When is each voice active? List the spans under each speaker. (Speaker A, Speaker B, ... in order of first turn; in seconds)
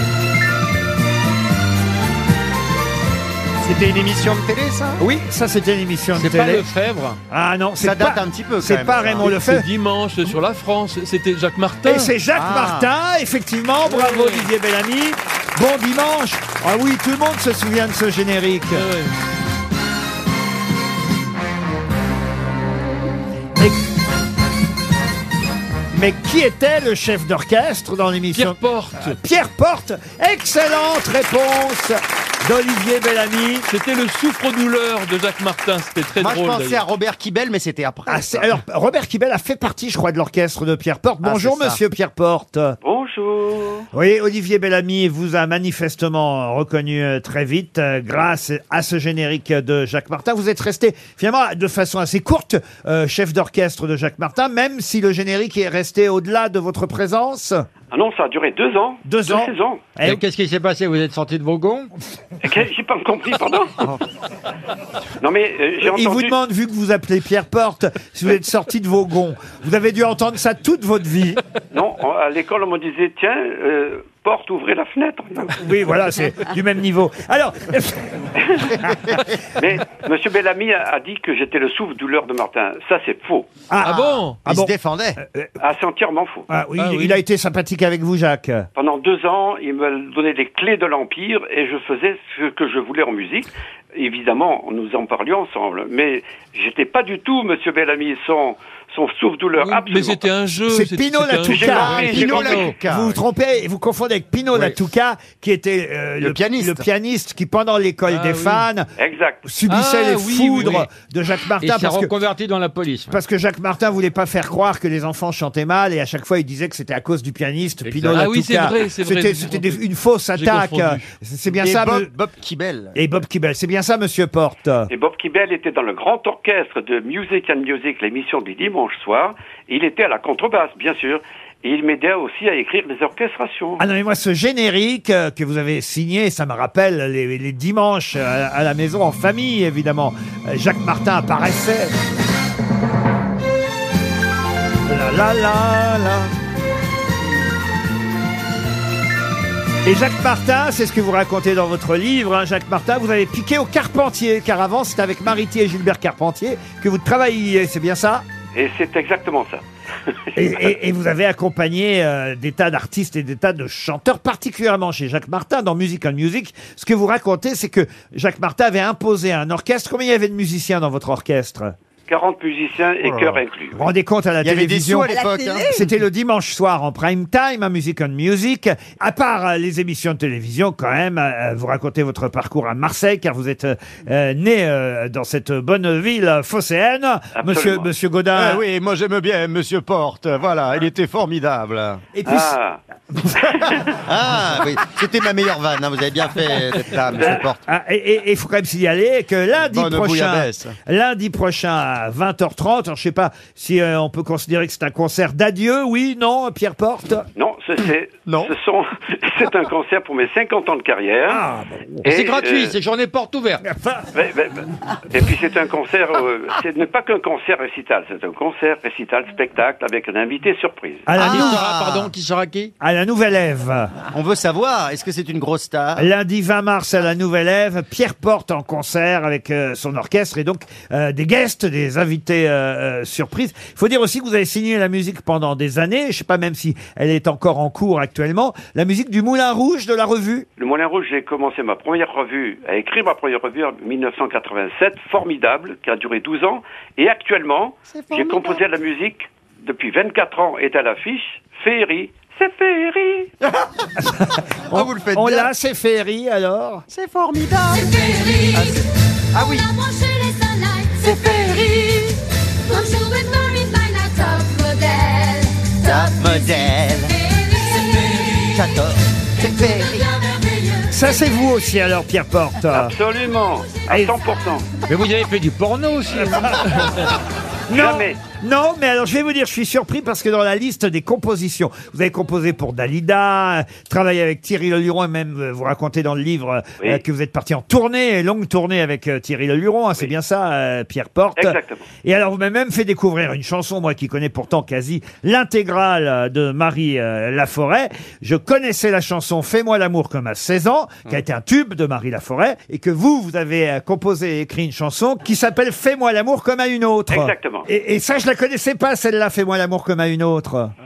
Speaker A: 3.6-5.0, 7.8-9.3, 12.3-12.9, 36.2-38.5, 41.2-41.8, 83.8-85.2, 101.4-103.2, 106.2-106.8, 121.5-123.0, 173.0-173.4, 174.4-175.9, 188.3-192.0, 193.8-197.6, 199.7-200.8, 208.3-208.5, 221.2-222.1, 224.1-226.1, 247.9-248.6, 253.4-253.9, 254.7-255.5, 256.9-259.8, 261.0-262.2, 265.8-270.2
Speaker B: 5.0-6.7, 7.3-9.7, 11.8-18.9, 25.9-33.7, 38.1-42.8, 43.9-57.6, 59.0-60.2, 65.8-71.4, 75.6-79.2, 83.7-85.5, 86.5-88.7, 100.7-108.9, 109.5-112.1, 113.1-122.1, 123.0-124.9, 133.8-141.9, 144.9-146.3, 149.8-158.2, 160.4-171.7, 173.7-175.2, 175.7-188.6, 192.1-192.6, 197.7-207.3, 211.3-212.0, 213.7-214.1, 221.1-221.6, 222.8-223.9, 226.0-240.5, 254.0-256.9, 270.9-272.9, 276.2-276.9, 277.7-310.7
Speaker C: 6.1-7.2, 60.0-61.9, 101.7-102.8, 111.6-113.2, 117.8-118.3, 212.1-213.7, 221.2-222.7, 274.9-277.1
Speaker D: 9.2-12.1, 13.8-14.5, 18.7-19.1, 28.3-29.2, 33.7-36.9, 83.8-84.4, 86.8-87.2, 99.6-102.6, 108.1-108.7, 109.7-110.9, 118.1-121.1
Speaker E: 42.8-43.9, 57.9-59.8, 62.4-63.9, 65.2-66.4, 71.7-75.6, 78.4-78.8, 79.6-83.5, 85.6-86.5, 88.8-100.3, 109.0-109.5, 124.9-133.8, 158.5-160.7, 172.1-173.8, 187.4-187.9, 192.2-192.8, 193.4-193.9, 197.2-197.4, 207.4-211.4, 212.0-212.8, 214.1-221.2, 240.6-253.3, 272.7-274.7, 277.7-278.2, 291.4-291.9, 307.1-307.7
Speaker F: 175.1-175.8, 258.2-258.7, 259.7-261.8, 262.7-266.7